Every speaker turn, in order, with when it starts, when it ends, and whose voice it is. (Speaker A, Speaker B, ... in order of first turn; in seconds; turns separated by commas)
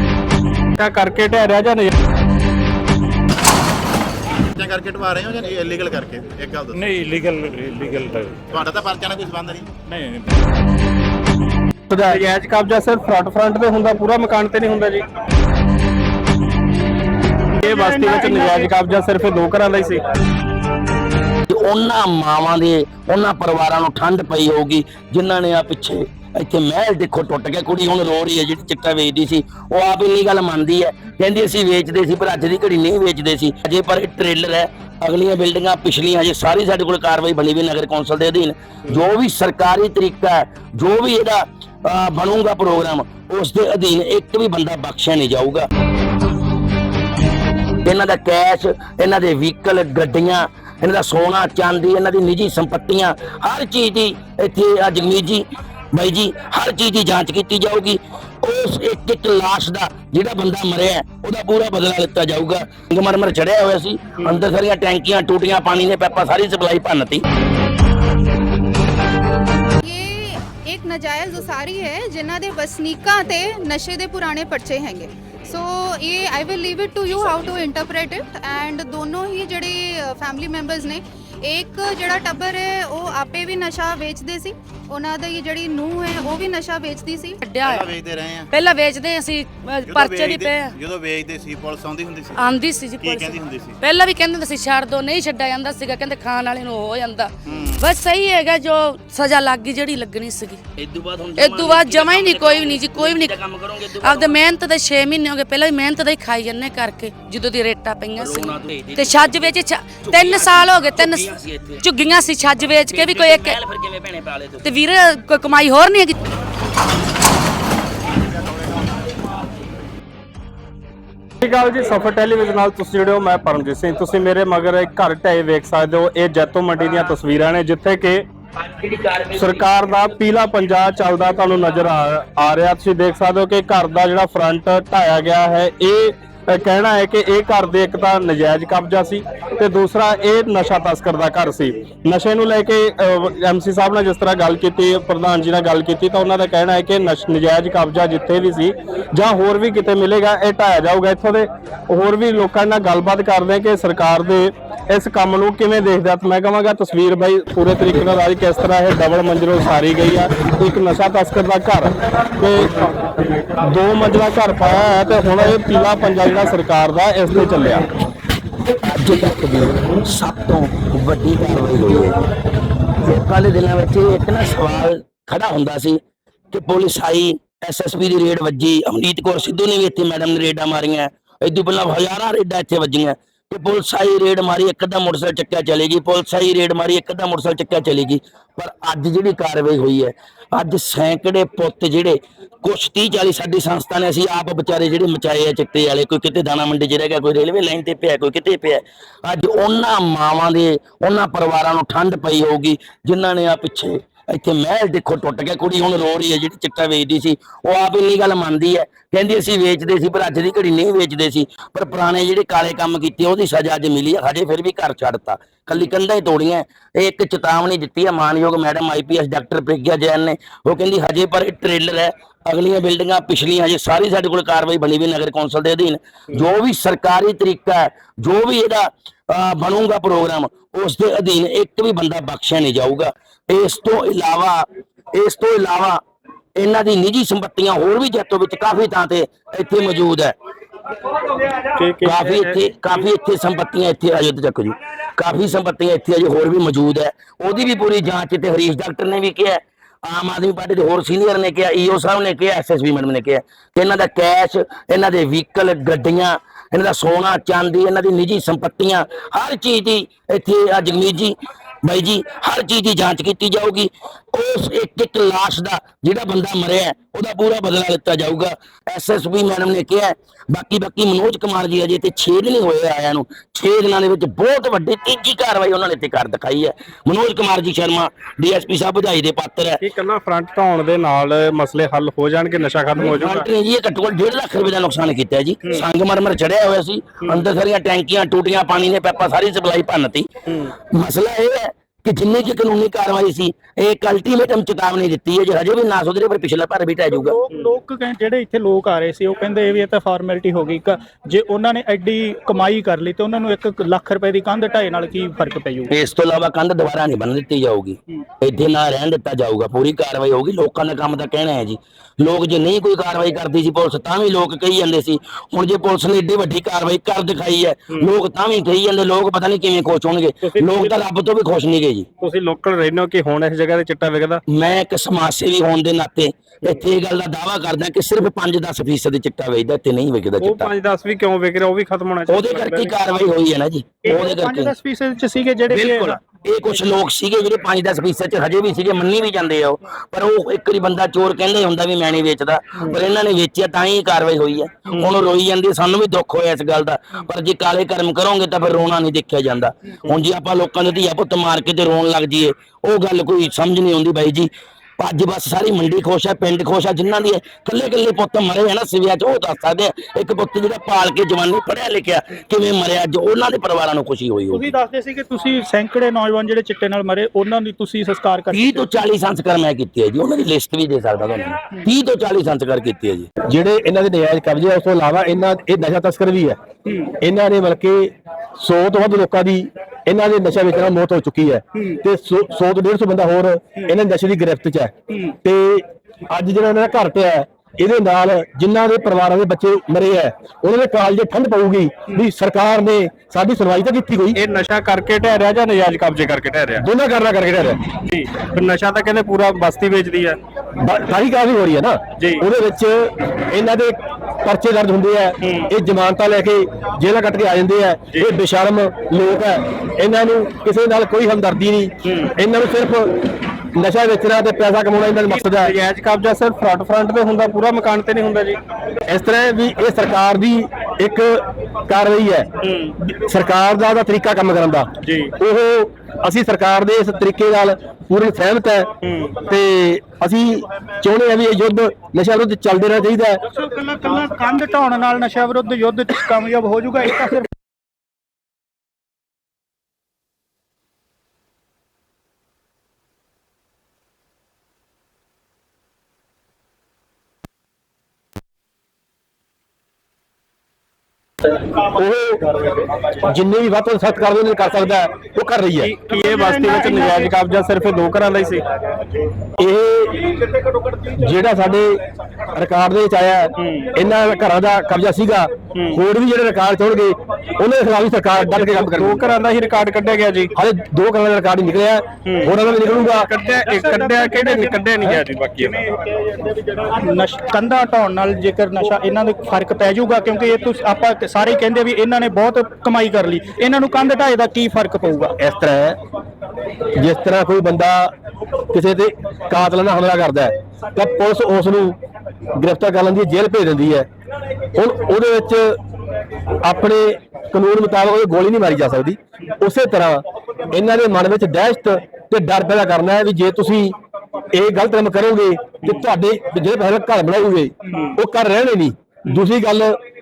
Speaker A: 0.8-1.9, Speaker B: 4.5-6.8, Speaker C: 6.7-8.4, Speaker B: 8.5-9.7, Speaker C: 9.8-10.5, Speaker A: 11.9-15.1, Speaker A: 17.6-20.0, Speaker D: 17.6-18.7, Speaker E: 21.5-45.7, Speaker E: 47.8-67.2, Speaker F: 69.8-87.4, Speaker E: 77.1-77.6, Speaker G: 87.4-87.9, Speaker B: 87.7-88.5, Speaker G: 88.5-90.8, Speaker B: 89.8-92.5, Speaker G: 92.4-100.6, Speaker B: 93.0-93.8, Speaker B: 97.5-97.8, Speaker E: 100.8-104.4, Speaker G: 101.4-103.4, Speaker G: 104.0-111.3, Speaker E: 108.2-111.8, Speaker G: 111.8-113.6, Speaker E: 112.9-114.7, Speaker G: 114.6-116.2, Speaker A: 121.4-128.3, Speaker E: 128.8-129.6, Speaker A: 129.3-162.7, Speaker A: 163.6-167.8, Speaker E: 168.8-172.2, Speaker E: 173.0-176.0, Speaker E: 176.5-236.0, Speaker E: 236.6-240.3, Speaker A: 241.8-242.6, Speaker E: 242.0-279.8, Speaker A: 279.8-283.5, Speaker E: 283.0-290.3, Speaker A: 290.5-290.7, Speaker E: 290.9-297.4, Speaker D: 297.1-305.9, Speaker E: 305.9-322.1, Speaker A: 320.4-321.0, Speaker A: 322.2-324.4, Speaker E: 324.5-330.7, Speaker A: 330.4-333.0, Speaker E: 332.3-334.7, Speaker D: 334.1-336.2, Speaker E: 335.7-364.7, Speaker D: 364.5-368.8, Speaker E: 368.5-373.3, Speaker H: 373.4-394.4, Speaker A: 394.4-396.8, Speaker H: 396.8-397.9, Speaker A: 398.0-400.4, Speaker H: 400.8-415.8, Speaker A: 402.2-402.4, Speaker A: 405.4-405.7, Speaker A: 412.0-412.3, Speaker A: 415.3-418.6, Speaker H: 419.1-422.5, Speaker A: 422.6-423.0, Speaker H: 423.1-433.4, Speaker A: 425.0-425.3, Speaker A: 429.0-429.4, Speaker D: 433.6-437.5, Speaker H: 451.9-452.6, Speaker H: 453.2-456.0, Speaker A: 455.8-458.7, Speaker D: 456.1-457.3, Speaker H: 459.6-460.3, Speaker H: 461.2-462.0, Speaker H: 462.5-469.3, Speaker A: 463.6-463.9, Speaker A: 465.8-466.0, Speaker A: 468.5-470.5, Speaker H: 470.6-473.3, Speaker A: 472.2-475.9, Speaker D: 473.6-474.9, Speaker D: 476.1-485.4, Speaker H: 485.4-486.0, Speaker H: 487.0-488.1, Speaker H: 488.7-492.0, Speaker H: 492.6-494.1, Speaker H: 494.8-495.8, Speaker H: 496.6-503.9, Speaker H: 504.5-510.0